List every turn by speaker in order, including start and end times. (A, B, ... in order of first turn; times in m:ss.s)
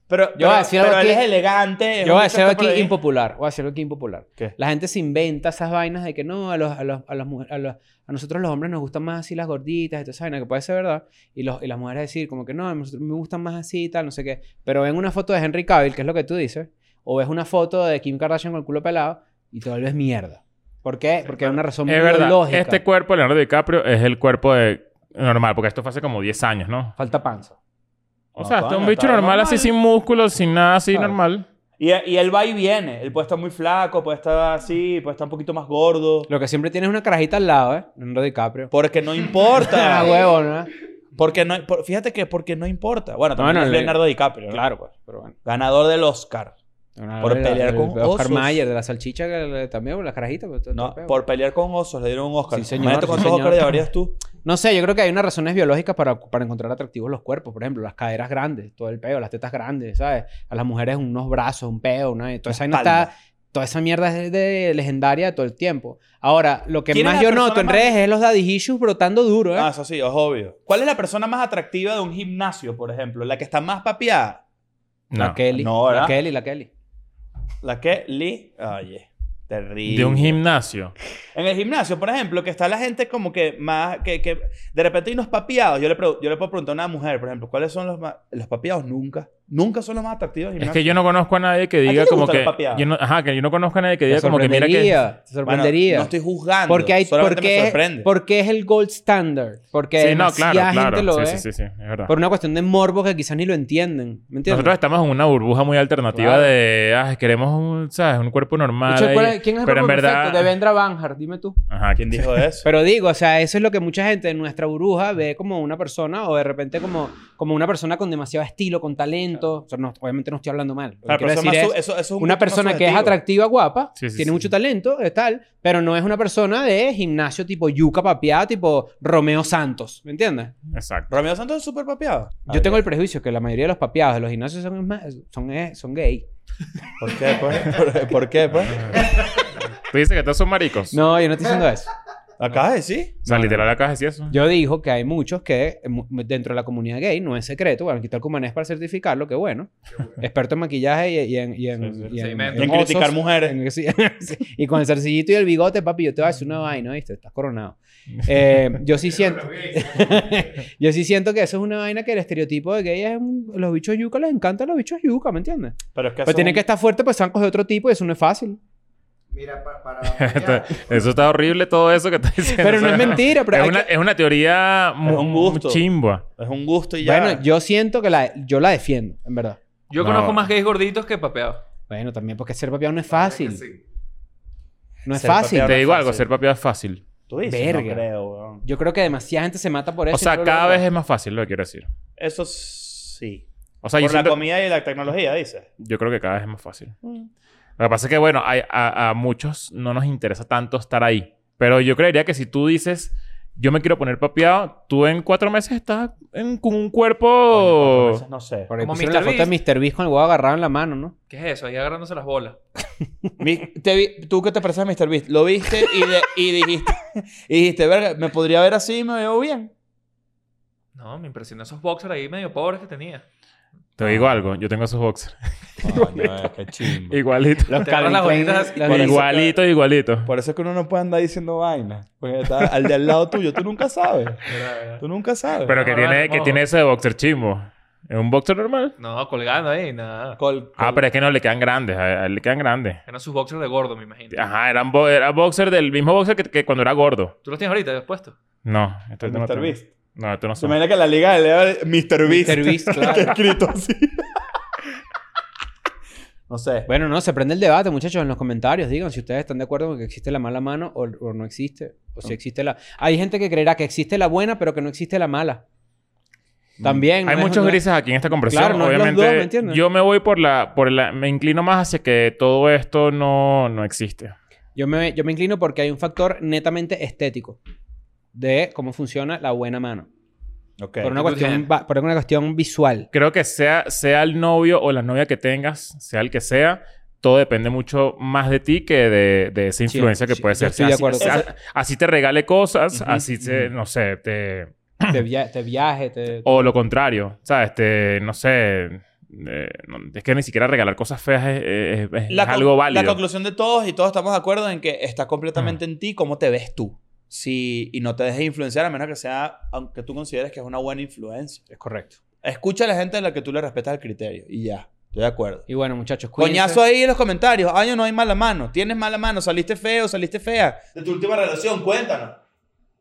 0:00.1-0:03.0 A
0:00.4-0:01.2 B
0:02.0-0:22.8 B
0:21.2-0:21.6 A
0:21.9-0:26.9 C
0:27.0-0:27.6 B
0:28.4-0:31.5 C
0:28.4-0:29.7 A
0:31.8-0:36.3 A
0:36.3-0:38.7 B
0:38.7-0:40.2 A
0:39.6-0:40.7 B
0:41.2-0:44.7 A
0:43.4-0:45.4 B
0:45.4-0:46.6 A
0:47.0-0:51.2 B
0:47.2-0:48.6 A
0:50.7-0:54.2 A
0:52.5-0:53.8 B
0:54.4-1:09.7 B
1:02.5-1:03.1 A
1:06.9-1:08.0 A
1:09.6-1:14.4 A
1:15.1-1:15.4 C
1:15.2-1:16.7 B
1:15.5-1:16.2 A
1:17.6-1:20.4 A
1:19.9-1:21.0 C
1:21.4-1:31.0 A
1:30.6-1:35.0 C
1:31.8-1:32.9 A
1:34.1-1:36.1 B
1:35.4-1:38.1 A
1:36.7-1:41.4 B
1:40.0-1:42.1 C
1:42.1-1:44.8 B
1:44.5-1:50.5 C
1:46.1-1:46.5 B
1:48.9-1:51.6 B
1:51.7-1:52.3 C
1:52.0-1:52.7 A
1:52.6-2:10.5 B
2:01.1-2:03.2 A
2:04.0-2:04.5 C
2:10.7-2:11.1 C
2:11.1-2:12.8 A
2:12.5-2:16.2 B
2:17.0-2:19.0 A
2:18.8-2:19.2 C
2:19.8-2:21.0 C
2:20.9-2:21.9 B
2:22.4-2:23.2 A
2:23.2-2:24.3 C
2:23.3-2:23.6 B
2:24.3-2:48.6 B
2:29.9-2:30.2 D
2:31.8-2:33.6 A
2:32.1-2:32.7 E
2:38.9-2:40.6 D
2:46.0-2:46.6 A
2:49.3-2:51.3 D
2:50.1-2:56.2 C
2:52.6-2:53.9 B
2:52.8-2:53.2 A
2:55.0-2:55.9 A
2:56.4-2:57.4 A
2:57.0-2:59.6 B
2:59.9-3:01.6 E
3:00.0-3:00.5 C
3:01.9-3:03.6 B
3:03.1-3:03.8 D
3:05.0-3:06.3 A
3:05.1-3:05.8 B
3:05.6-3:07.0 C
3:07.3-3:08.6 A
3:07.4-3:08.1 B
3:08.6-3:10.8 B
3:10.1-3:11.9 C
3:12.2-3:13.5 A
3:13.8-3:14.4 C
3:14.0-3:15.7 A
3:15.8-3:17.0 C
3:17.0-3:17.3 A
3:17.8-3:28.2 C
3:27.5-3:28.7 A
3:28.7-3:31.2 B
3:28.8-3:29.6 E
3:31.3-3:32.6 E
3:33.4-3:39.7 A
3:40.9-3:43.3 E
3:44.0-3:46.4 C
3:44.0-3:44.4 A
3:45.8-3:47.2 A
3:47.1-3:47.9 C
3:47.7-3:49.2 B
3:47.8-3:49.1 E
3:48.9-3:49.6 A
3:48.9-3:50.3 C
3:50.2-3:55.8 A
3:54.5-3:55.0 E
3:55.7-3:59.0 C
3:55.7-3:56.6 E
3:59.0-4:00.4 E
4:00.4-4:01.0 A
4:00.8-4:03.0 C
4:03.1-4:04.5 E
4:04.3-4:07.3 C
4:07.4-4:08.4 E
4:08.6-4:10.8 C
4:09.2-4:09.9 A
4:10.6-4:14.3 A
4:12.2-4:13.4 B
4:16.5-4:16.9 A
4:16.9-4:25.6 B
4:26.8-4:27.1 A
4:26.8-4:27.8 B
4:27.2-4:34.4 C
4:28.5-4:29.8 B
4:34.8-4:37.6 B
4:38.3-4:40.1 B
4:40.8-4:41.3 A
4:41.0-4:43.1 B
4:41.2-4:41.6 E
4:43.1-4:55.2 C
4:49.9-4:51.4 B
4:51.2-4:51.4 A
4:52.9-4:53.3 A
4:55.1-4:56.7 B
4:56.4-5:03.2 C
5:02.3-5:11.6 A
5:11.7-5:12.2 B
5:12.4-5:15.6 A
5:15.7-5:16.8 B
5:16.4-5:22.4 A